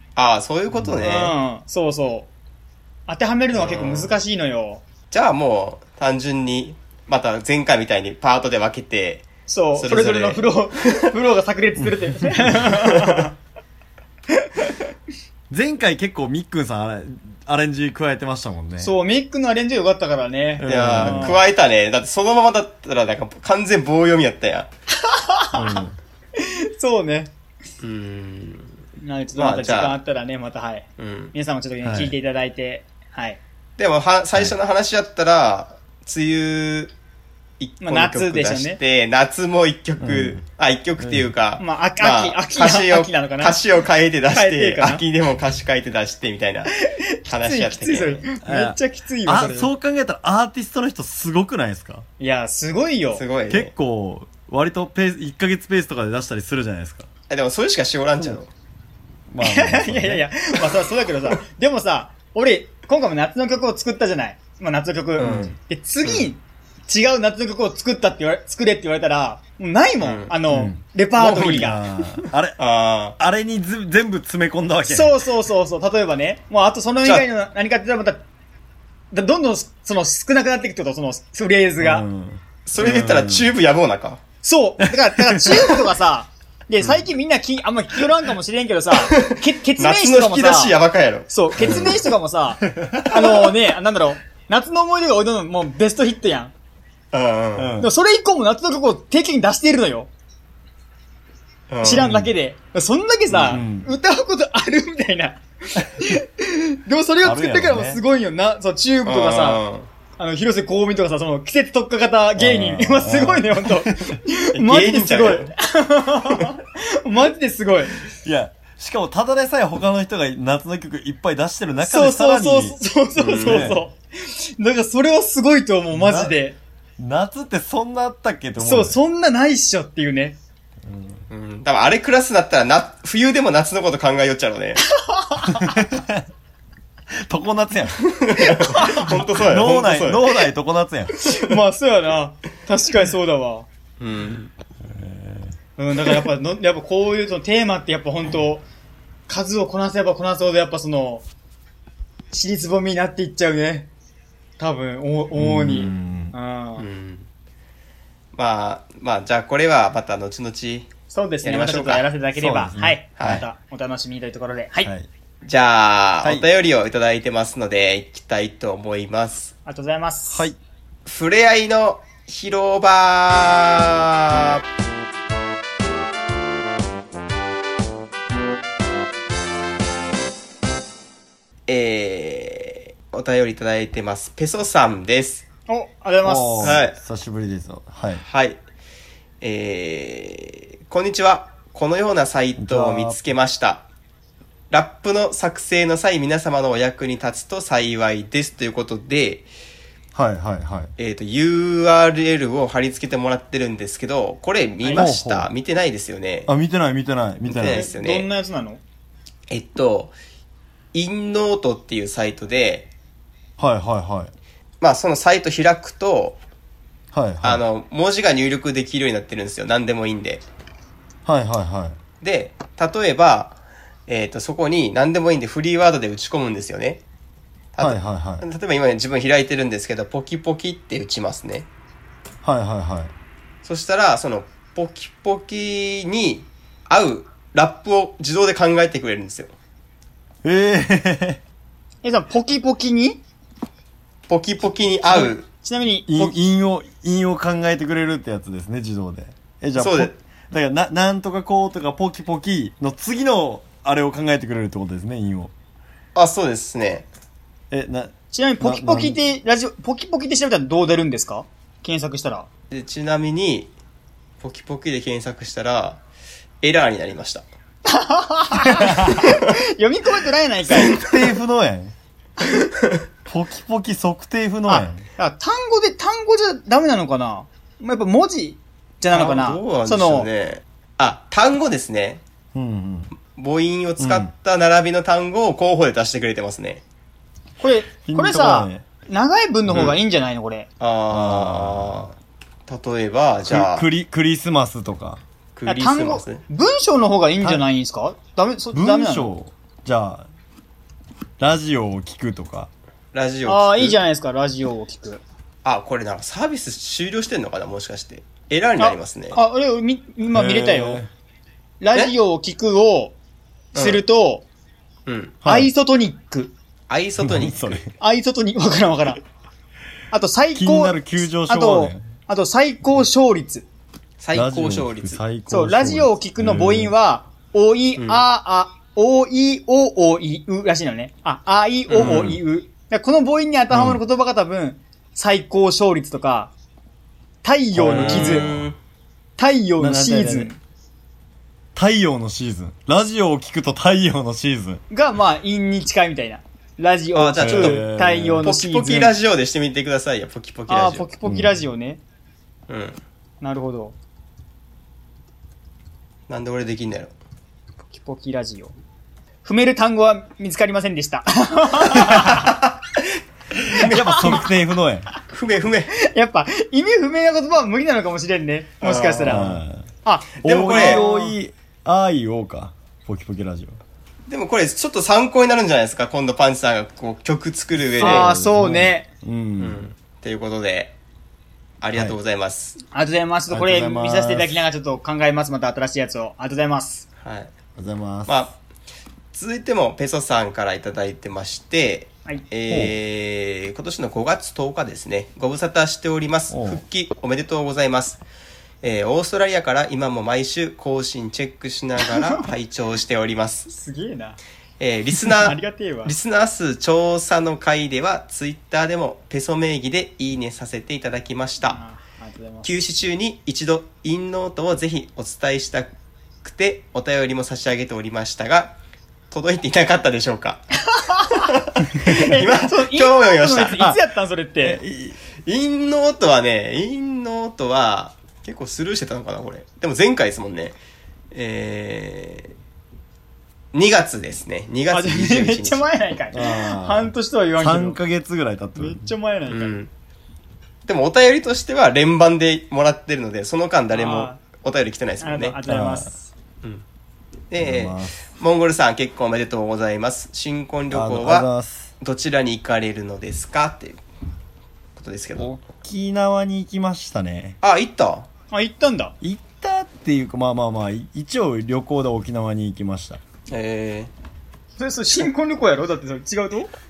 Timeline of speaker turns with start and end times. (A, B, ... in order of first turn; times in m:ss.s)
0:00.2-0:01.3 A
0:01.0-0:02.3 B
0:03.0-0:04.8 B
0:03.5-0:04.2 A
0:05.1-0:11.1 A
0:09.5-0:13.3 B
0:12.7-0:13.2 A
0:15.5-0:18.9 C
0:18.8-0:21.4 B
0:20.6-0:21.4 C
0:20.6-0:24.7 A
0:25.0-0:25.8 B
0:25.5-0:26.0 C
0:26.4-0:27.3 B
0:27.8-0:28.7 A
0:29.0-0:33.4 B
0:29.4-0:30.0 A
0:31.0-0:31.3 A
0:31.8-0:32.2 C
0:33.8-0:36.9 A
0:37.6-0:46.7 A
0:37.8-0:38.8 B
0:40.0-0:40.4 C
0:41.0-0:41.3 C
0:41.6-0:43.6 B
0:44.3-0:45.0 B
0:46.7-0:49.7 B
0:47.3-0:48.3 A
0:48.4-0:52.0 C
0:52.2-0:53.2 B
0:53.1-0:53.7 A
0:53.5-0:57.1 C
0:57.3-0:58.5 A
0:59.3-1:00.2 C
0:59.4-1:11.8 B
1:05.2-1:05.5 A
1:05.2-1:05.5 C
1:06.0-1:06.3 A
1:10.0-1:10.4 A
1:10.5-1:12.6 C
1:11.2-1:11.7 A
1:12.6-1:13.2 A
1:13.2-1:15.2 C
1:14.8-1:18.2 B
1:19.1-1:22.1 B
1:21.8-1:23.5 C
1:22.6-1:24.2 A
1:24.4-1:30.8 B
1:24.8-1:25.7 C
1:29.0-1:32.0 A
1:31.3-1:36.5 B
1:31.6-1:32.0 C
1:32.6-1:33.5 C
1:37.1-1:37.7 A
1:37.6-1:37.9 C
1:37.8-1:40.1 B
1:41.7-1:42.1 A
1:41.8-1:49.6 B
1:41.8-1:42.3 C
1:43.3-1:43.6 A
1:43.5-1:43.9 C
1:47.2-1:48.0 C
1:49.0-1:49.9 A
1:50.2-1:58.0 B
1:52.4-1:54.2 C
1:54.5-1:55.5 A
1:58.1-2:02.8 C
2:01.8-2:06.6 B
2:03.2-2:03.7 A
2:03.4-2:03.8 C
2:05.9-2:06.4 C
2:07.0-2:09.0 C
2:08.6-2:10.4 B
2:10.8-2:11.2 C
2:11.3-2:14.8 A
2:14.9-2:15.8 B
2:15.4-2:16.2 C
2:17.2-2:18.0 C
2:18.2-2:20.5 A
2:18.7-2:19.1 B
2:19.1-2:21.1 C
2:21.2-2:21.5 A
2:21.2-2:23.7 B
2:24.0-2:24.5 A
2:24.8-2:25.5 C
2:25.8-2:28.6 B
2:29.3-2:31.2 B
2:32.3-2:33.9 B
2:34.6-2:36.8 B
2:35.3-2:36.3 C
2:36.8-2:37.3 A
2:38.3-2:40.9 A
2:41.1-2:44.9 B
2:41.4-2:42.1 A
2:42.4-2:43.4 C
2:43.2-2:43.4 A
2:44.8-2:45.1 C
2:45.4-2:49.5 A
2:46.2-2:46.5 C
2:49.6-2:50.4 B
2:50.3-2:50.6 C
2:51.0-2:54.6 A
3:01.7-3:05.4 A
3:05.7-3:06.8 B
3:06.2-3:08.2 C
3:06.6-3:06.9 A
3:08.1-3:08.6 A
3:09.4-3:13.9 A
3:12.6-3:13.2 C
3:14.7-3:19.5 A
3:20.1-3:20.9 C
3:21.0-3:26.5 A
3:24.9-3:25.5 C
3:26.5-3:27.8 C
3:27.5-3:28.3 A
3:27.6-3:28.8 B
3:29.5-3:30.1 A
3:30.9-3:32.9 A
3:33.6-3:34.3 C
3:34.8-3:36.4 A
3:37.1-3:37.6 C
3:37.4-3:40.4 A
3:41.2-3:42.0 C
3:42.2-3:47.0 A
3:47.7-3:51.7 A
3:47.8-3:48.4 C
3:52.4-3:53.1 C
3:53.6-3:59.5 A
4:00.4-4:01.4 C
4:02.0-4:03.2 B
4:04.3-4:05.5 A
4:05.1-4:06.4 B
4:06.1-4:15.5 C
4:09.8-4:10.2 A
4:16.1-4:17.1 A
4:17.7-4:19.2 C
4:18.3-4:22.5 B
4:22.7-4:23.7 A
4:24.4-4:26.0 A
4:26.6-4:27.4 A
4:27.9-4:31.0 B
4:30.7-4:31.9 C
4:30.8-4:31.2 A
4:33.2-4:35.0 C
4:34.6-4:40.3 B
4:39.1-4:42.2 A
4:42.5-4:43.1 C
4:43.3-4:46.8 A
4:44.0-4:44.3 C
4:47.6-4:50.7 B
4:48.1-4:48.8 C
4:49.7-4:50.0 A
4:50.8-4:52.1 A
4:51.1-4:52.1 C
4:52.7-4:53.9 A
4:53.4-4:55.2 C
4:55.6-4:56.4 A
4:55.6-4:59.3 B
4:57.4-4:57.7 C
4:58.7-5:00.3 C
5:01.4-5:02.7 C
5:03.1-5:04.0 A
5:03.4-5:05.2 B
5:05.6-5:09.4 A
5:08.8-5:11.0 B
5:10.3-5:11.1 C
5:11.8-5:13.2 B
5:13.7-5:14.0 A
5:13.7-5:14.4 B
5:15.0-5:15.4 A
5:15.4-5:15.7 C
5:15.4-5:16.5 B
5:16.9-5:17.8 A
5:17.2-5:17.9 C
5:18.0-5:19.2 B
5:20.1-5:23.6 B
5:20.5-5:22.0 C
5:24.2-5:25.2 A
5:24.3-5:26.9 C
5:25.5-5:36.5 B
5:28.0-5:28.2 A
5:31.9-5:32.4 A
5:32.0-5:32.4 C
5:33.7-5:34.0 C
5:37.4-5:38.5 B
5:37.7-5:38.6 C
5:37.9-5:38.8 A
5:39.4-5:40.6 B
5:39.8-5:40.5 C
5:41.7-5:44.8 C
5:44.9-5:49.2 B
5:47.1-5:47.9 A
5:47.4-5:48.4 C
5:48.4-5:51.1 A
5:50.7-5:52.0 B
5:51.2-5:51.6 C
5:52.7-5:53.0 A
5:53.4-5:54.0 B
5:56.3-5:57.1 A
5:57.9-5:58.7 B
5:59.4-6:02.6 B
6:02.0-6:02.5 A
6:03.6-6:05.1 C
6:03.8-6:04.3 A
6:03.9-6:04.4 B
6:05.3-6:05.9 A
6:06.0-6:11.4 B
6:08.8-6:09.4 A
6:09.2-6:09.9 C
6:10.4-6:11.0 A
6:10.4-6:13.8 C
6:14.3-6:18.3 A
6:18.0-6:19.8 C
6:18.0-6:19.1 B
6:19.6-6:20.9 A
6:21.8-6:22.8 A
6:22.9-6:27.0 B
6:23.5-6:24.6 C
6:27.2-6:27.5 A
6:27.8-6:28.4 C
6:28.3-6:28.6 A
6:29.3-6:38.2 A
6:32.7-6:32.9 C
6:36.5-6:36.8 C
6:38.8-6:43.7 A
6:43.7-6:44.4 B
6:44.8-6:51.8 A
6:45.2-6:46.1 B
6:51.6-6:52.8 B
6:52.6-6:55.9 A
6:56.4-6:58.8 A
6:59.3-7:00.6 A
7:00.8-7:01.4 B
7:01.4-7:03.8 A
7:02.0-7:04.8 B
7:04.6-7:05.2 C
7:05.4-7:10.8 A
7:11.3-7:12.5 A
7:13.7-7:15.9 A
7:14.9-7:18.0 B
7:16.3-7:19.1 C
7:18.8-7:19.8 B
7:19.5-7:19.9 A
7:20.8-7:25.6 A
7:23.9-7:24.4 B
7:25.2-7:26.3 B
7:25.7-7:26.1 C
7:27.5-7:31.5 A
7:27.6-7:28.2 C
7:30.9-7:31.9 C
7:32.0-7:34.0 A
7:35.0-7:35.5 A
7:35.3-7:37.6 C
7:37.6-7:38.3 A
7:38.5-7:39.1 B
7:39.2-7:43.2 C
7:43.5-7:44.1 A
7:44.8-7:46.7 B